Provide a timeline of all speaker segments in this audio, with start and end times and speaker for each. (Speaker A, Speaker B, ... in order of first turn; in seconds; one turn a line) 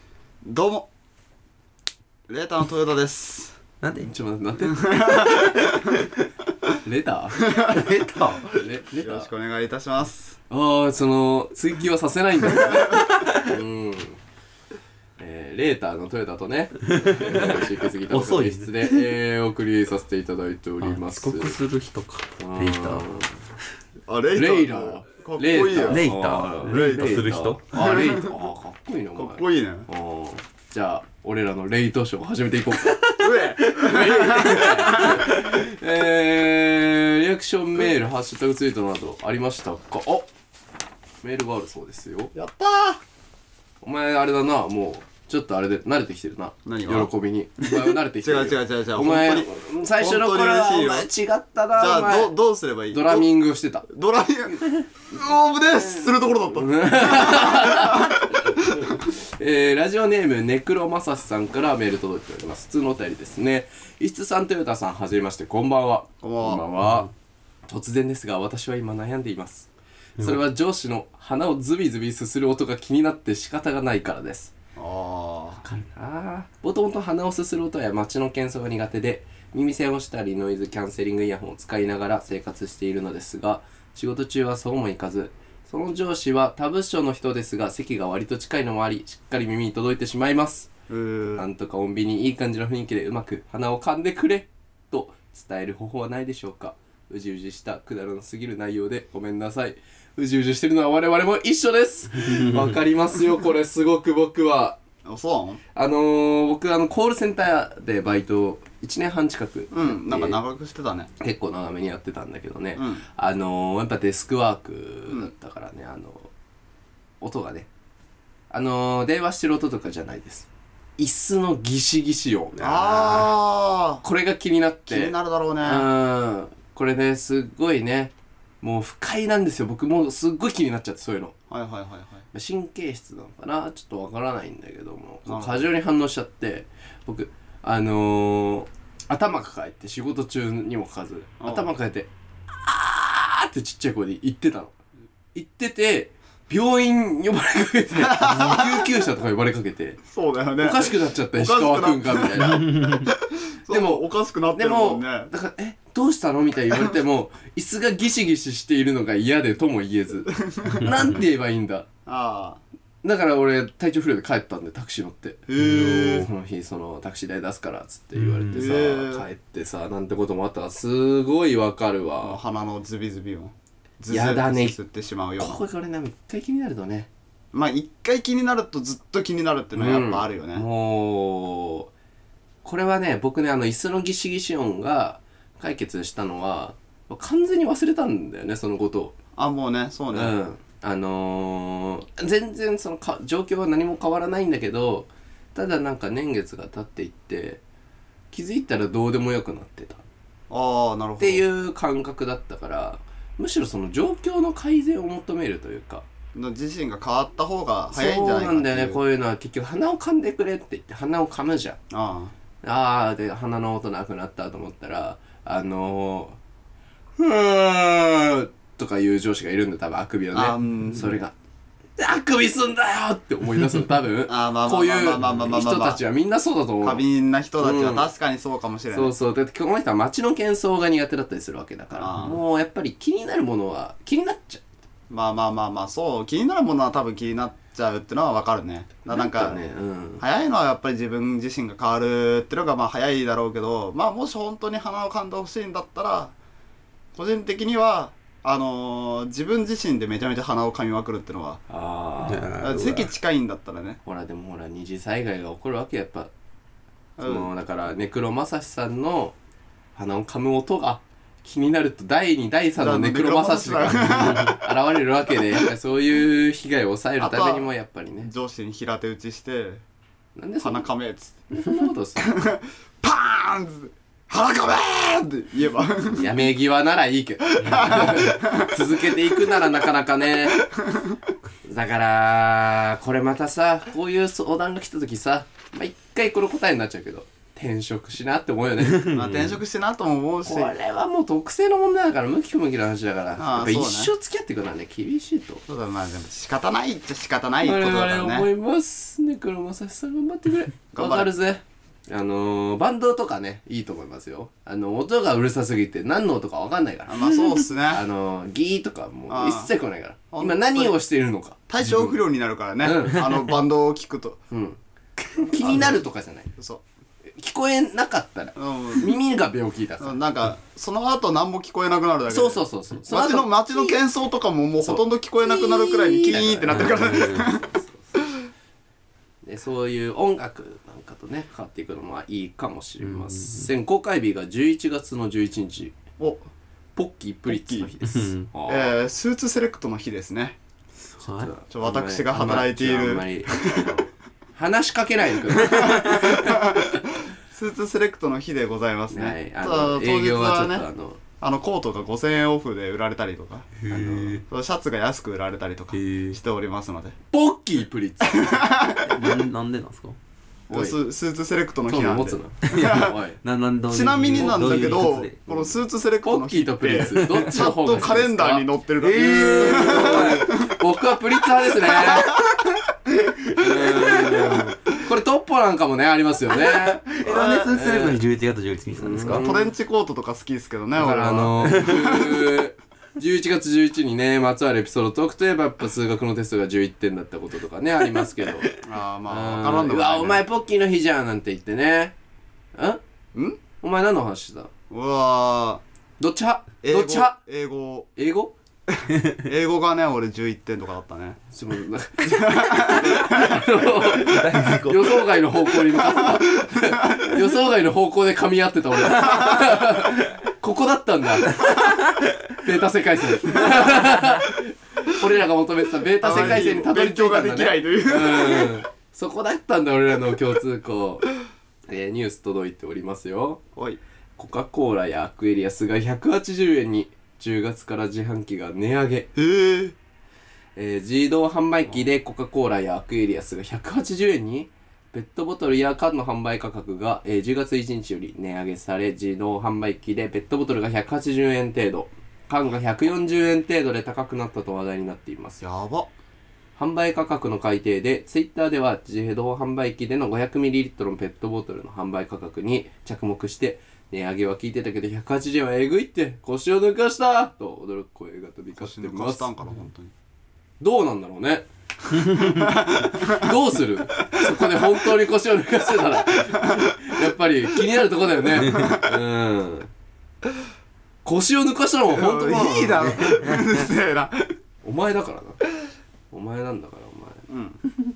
Speaker A: 0.4-0.9
Speaker A: 2.3-3.6
Speaker B: 3.8-4.1
Speaker C: 4.0-5.6
Speaker A: 4.7-5.9
Speaker B: 5.8-6.1
Speaker C: 6.8-7.8
Speaker A: 7.5-7.8
Speaker B: 7.7-8.5
Speaker C: 8.5-9.3
Speaker A: 9.0-10.4
Speaker C: 10.5-14.2
Speaker C: 15.2-21.5
Speaker B: 17.0-19.1
Speaker B: 20.8-23.1
Speaker C: 22.4-23.3
Speaker A: 24.1-28.3
Speaker C: 24.3-40.3
Speaker B: 25.8-27.6
Speaker A: 29.1-29.9
Speaker A: 33.2-35.4
Speaker C: 41.2-42.3
Speaker A: 42.3-43.0
Speaker C: 43.8-52.3
Speaker A: 46.6-47.1
Speaker A: 48.2-51.1
Speaker A: 51.7-53.3
Speaker C: 52.9-53.9
Speaker A: 53.9-59.0
Speaker C: 56.0-67.1
Speaker A: 66.2-66.6
Speaker C: 67.7-74.5
Speaker A: 74.8-75.6
Speaker C: 75.6-90.7
Speaker A: 90.9-91.5
Speaker C: 91.3-104.8
Speaker A: 105.0-105.6
Speaker C: 105.7-110.4
Speaker A: 109.7-111.1
Speaker C: 111.2-116.3
Speaker A: 112.8-113.0
Speaker C: 117.2-117.7
Speaker C: 118.5-123.3
Speaker A: 122.6-124.0
Speaker C: 124.0-131.3
Speaker A: 124.9-125.9
Speaker A: 131.5-132.2
Speaker C: 132.3-142.1
Speaker A: 135.2-135.7
Speaker A: 141.4-141.7
Speaker C: 142.6-144.7
Speaker C: 145.3-150.0
Speaker A: 148.0-149.0
Speaker A: 150.1-155.3
Speaker C: 150.6-153.1
Speaker B: 152.6-153.1
Speaker C: 153.7-161.9
Speaker A: 160.3-160.9
Speaker A: 162.1-162.6
Speaker C: 163.0-172.4
Speaker A: 165.5-166.3
Speaker B: 165.6-166.3
Speaker B: 168.1-168.7
Speaker A: 168.5-169.3
Speaker A: 172.2-175.6
Speaker C: 174.1-174.7
Speaker C: 175.4-177.1
Speaker A: 177.5-180.6
Speaker C: 179.7-181.9
Speaker C: 182.6-189.1
Speaker A: 189.3-190.3
Speaker C: 190.1-197.6
Speaker C: 198.3-200.0
Speaker A: 200.5-201.4
Speaker C: 201.2-206.1
Speaker A: 206.3-209.0
Speaker C: 207.9-211.8
Speaker A: 211.9-212.3
Speaker C: 212.6-216.4
Speaker C: 217.2-221.3
Speaker A: 220.3-221.1
Speaker C: 222.0-227.0
Speaker A: 224.3-226.0
Speaker A: 226.8-229.1
Speaker C: 227.6-228.1
Speaker C: 228.9-234.6
Speaker A: 231.9-232.4
Speaker A: 235.1-239.6
Speaker C: 239.1-240.2
Speaker A: 240.2-246.3
Speaker A: 247.1-251.6
Speaker C: 251.7-252.5
Speaker B: 252.2-253.1
Speaker A: 252.6-254.0
Speaker C: 254.0-256.3
Speaker A: 257.2-257.5
Speaker C: 257.2-259.3
Speaker C: 259.9-268.3
Speaker A: 262.8-264.7
Speaker A: 267.2-267.7
Speaker A: 268.2-269.8
Speaker C: 270.3-270.9
Speaker A: 270.6-271.4
Speaker C: 271.5-272.3
Speaker A: 272.2-276.3
Speaker C: 276.1-280.6
Speaker A: 277.5-279.4
Speaker B: 277.6-278.1
Speaker A: 280.5-281.2
Speaker C: 281.6-289.1
Speaker B: 289.0-289.6
Speaker A: 289.1-290.7
Speaker C: 290.4-295.6
Speaker A: 293.4-294.1
Speaker A: 295.7-298.5
Speaker C: 297.6-311.6
Speaker A: 300.9-301.3
Speaker A: 307.1-308.0
Speaker A: 309.3-309.7
Speaker A: 310.3-311.0
Speaker A: 311.7-314.4
Speaker C: 312.8-313.4
Speaker C: 314.5-314.8
Speaker A: 315.4-316.0
Speaker C: 315.4-316.5
Speaker A: 316.6-316.8
Speaker C: 317.3-320.2
Speaker A: 318.6-319.1
Speaker A: 320.0-327.7
Speaker C: 322.3-324.0
Speaker C: 324.8-328.2
Speaker B: 326.7-327.6
Speaker A: 328.2-328.4
Speaker C: 329.4-335.9
Speaker B: 333.0-333.7
Speaker A: 336.2-336.4
Speaker C: 336.9-338.9
Speaker A: 337.5-337.9
Speaker B: 338.0-338.5
Speaker A: 338.7-340.6
Speaker B: 341.2-341.5
Speaker C: 341.3-347.0
Speaker A: 341.7-344.0
Speaker A: 345.6-350.8
Speaker C: 349.1-351.2
Speaker A: 351.4-357.1
Speaker B: 353.8-354.4
Speaker C: 353.9-354.4
Speaker B: 355.9-356.4
Speaker C: 357.3-358.7
Speaker A: 358.2-359.3
Speaker B: 359.0-360.2
Speaker A: 360.7-363.1
Speaker C: 361.9-363.4
Speaker B: 362.6-365.8
Speaker A: 363.9-370.7
Speaker C: 364.4-364.9
Speaker C: 366.2-372.4
Speaker B: 367.1-367.7
Speaker B: 369.0-370.4
Speaker A: 371.8-372.6
Speaker C: 373.5-378.2
Speaker B: 376.6-379.4
Speaker A: 377.2-377.8
Speaker C: 379.0-379.7
Speaker A: 379.4-382.4
Speaker C: 380.9-388.7
Speaker B: 381.7-382.1
Speaker A: 388.8-390.4
Speaker C: 389.3-392.1
Speaker C: 392.7-393.0
Speaker A: 393.3-393.6
Speaker C: 393.8-394.7
Speaker A: 394.9-395.8
Speaker C: 396.2-397.4
Speaker A: 396.8-398.1
Speaker C: 398.1-398.5
Speaker A: 398.9-401.4
Speaker C: 401.5-421.3
Speaker A: 402.2-403.8
Speaker B: 404.1-405.3
Speaker A: 406.1-407.4
Speaker A: 409.2-409.6
Speaker B: 409.3-409.6
Speaker A: 416.2-418.8
Speaker C: 421.9-423.6
Speaker C: 424.4-429.3
Speaker A: 429.3-429.9
Speaker C: 430.8-445.6
Speaker A: 445.6-446.1
Speaker C: 446.8-459.5
Speaker A: 458.8-460.1
Speaker C: 460.8-461.6
Speaker C: 462.2-462.4
Speaker A: 462.4-463.6
Speaker C: 463.0-469.9
Speaker A: 464.3-464.8
Speaker A: 466.3-467.2
Speaker A: 468.6-469.1
Speaker C: 471.2-473.6
Speaker A: 472.1-474.5
Speaker C: 474.8-475.6
Speaker C: 476.3-477.4
Speaker A: 477.5-477.8